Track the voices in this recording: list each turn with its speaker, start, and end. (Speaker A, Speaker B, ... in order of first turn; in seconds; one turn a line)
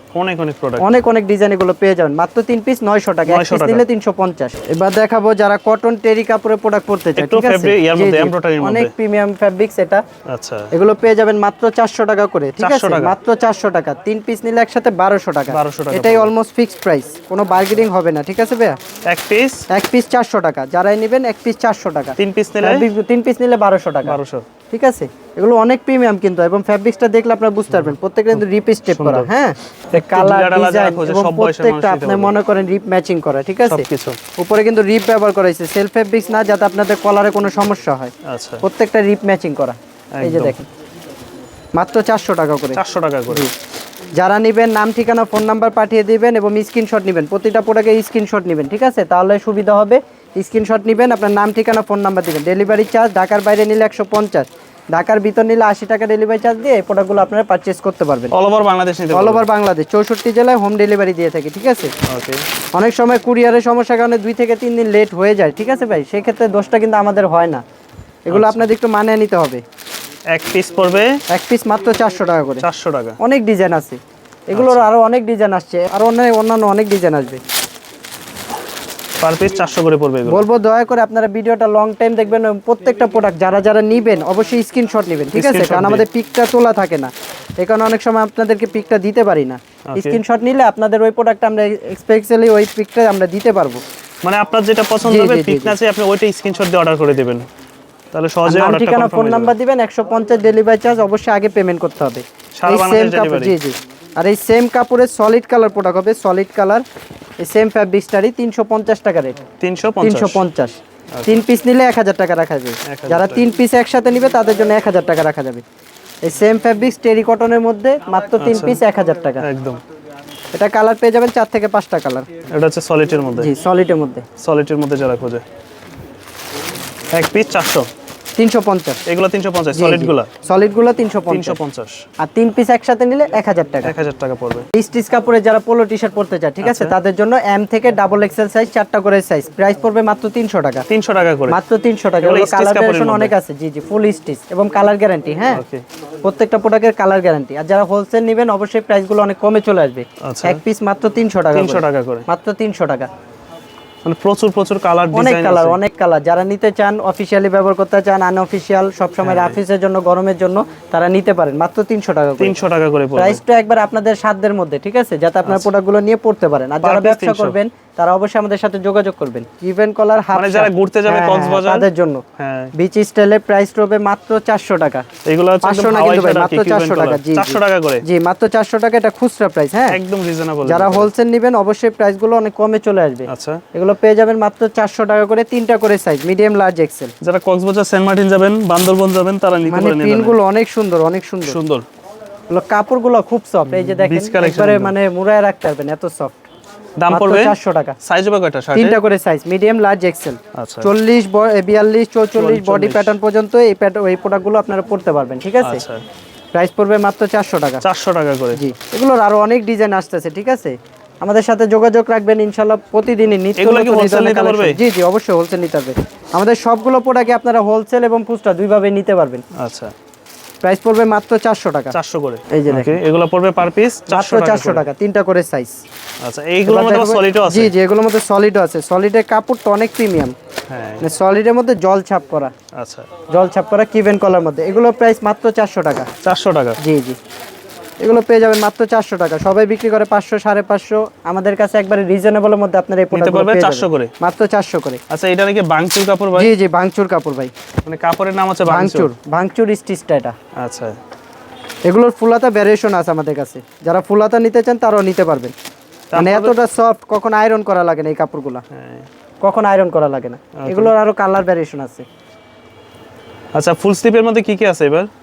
Speaker A: 0.1-0.9
Speaker B: 0.8-10.0
Speaker A: 3.3-3.8
Speaker A: 7.2-8.9
Speaker A: 10.3-10.7
Speaker B: 10.7-18.8
Speaker A: 12.6-13.2
Speaker A: 15.5-16.3
Speaker A: 19.1-19.6
Speaker B: 19.7-24.2
Speaker A: 22.2-22.9
Speaker A: 24.1-24.4
Speaker B: 24.7-33.9
Speaker A: 27.7-29.3
Speaker A: 29.9-32.3
Speaker A: 33.7-34.2
Speaker B: 34.4-40.7
Speaker A: 38.2-38.6
Speaker A: 40.1-40.6
Speaker B: 41.8-43.5
Speaker A: 42.7-43.5
Speaker B: 44.2-58.3
Speaker A: 58.3-59.5
Speaker B: 59.1-61.9
Speaker A: 62.1-62.4
Speaker B: 62.7-67.6
Speaker B: 68.2-69.6
Speaker A: 68.3-68.7
Speaker A: 70.3-71.1
Speaker B: 71.3-72.6
Speaker A: 72.6-73.2
Speaker B: 73.2-77.4
Speaker A: 74.5-74.9
Speaker A: 79.2-80.5
Speaker B: 80.2-93.8
Speaker A: 85.3-86.0
Speaker A: 89.9-90.2
Speaker A: 94.2-97.5
Speaker B: 95.0-95.8
Speaker A: 98.1-99.5
Speaker B: 98.4-106.8
Speaker A: 102.6-103.6
Speaker B: 107.4-109.4
Speaker A: 109.6-110.4
Speaker B: 110.0-115.6
Speaker A: 111.1-111.4
Speaker A: 112.9-113.5
Speaker B: 116.2-119.4
Speaker A: 118.4-118.8
Speaker A: 119.4-119.8
Speaker B: 120.5-122.3
Speaker A: 122.5-123.5
Speaker B: 123.4-124.2
Speaker A: 124.4-125.4
Speaker A: 127.1-127.9
Speaker B: 128.4-129.0
Speaker A: 129.1-130.3
Speaker B: 129.7-131.6
Speaker A: 131.3-132.1
Speaker B: 132.2-133.9
Speaker A: 133.8-134.7
Speaker B: 134.8-140.9
Speaker A: 136.6-136.9
Speaker A: 140.9-141.6
Speaker B: 141.5-145.6
Speaker A: 142.2-143.3
Speaker A: 145.5-145.8
Speaker B: 146.2-153.1
Speaker A: 150.2-150.6
Speaker A: 151.5-152.2
Speaker A: 154.1-155.8
Speaker B: 155.1-162.6
Speaker A: 159.2-159.6
Speaker A: 162.4-163.4
Speaker B: 163.2-172.2
Speaker A: 166.8-167.6
Speaker A: 170.3-171.9
Speaker A: 172.4-172.7
Speaker B: 172.8-175.1
Speaker A: 175.2-178.1
Speaker B: 175.6-180.0
Speaker A: 179.9-181.1
Speaker B: 180.6-187.1
Speaker A: 183.3-183.6
Speaker A: 187.2-190.4
Speaker B: 189.7-191.6
Speaker A: 191.4-191.8
Speaker B: 192.5-196.5
Speaker A: 193.7-194.9
Speaker A: 197.0-199.0
Speaker B: 197.1-198.0
Speaker B: 198.7-205.8
Speaker A: 200.5-200.9
Speaker A: 202.3-203.2
Speaker A: 205.6-206.0
Speaker B: 206.5-207.8
Speaker A: 207.8-208.6
Speaker B: 208.6-219.4
Speaker A: 213.6-214.8
Speaker A: 219.6-219.9
Speaker B: 220.6-222.0
Speaker A: 221.9-224.9
Speaker B: 222.5-223.0
Speaker B: 224.1-225.8
Speaker A: 226.2-227.7
Speaker B: 226.6-230.3
Speaker A: 230.7-231.1
Speaker B: 231.0-232.5
Speaker A: 232.7-233.1
Speaker B: 233.3-236.1
Speaker A: 236.2-236.8
Speaker B: 236.8-237.2
Speaker B: 238.0-245.0
Speaker A: 243.1-244.1
Speaker A: 245.1-246.5
Speaker B: 246.3-247.5
Speaker A: 247.9-249.1
Speaker B: 248.6-250.3
Speaker A: 250.6-251.0
Speaker B: 251.9-255.5
Speaker A: 256.1-256.6
Speaker B: 256.1-258.6
Speaker A: 258.7-259.1
Speaker B: 259.4-262.1
Speaker A: 260.6-260.9
Speaker A: 263.5-265.1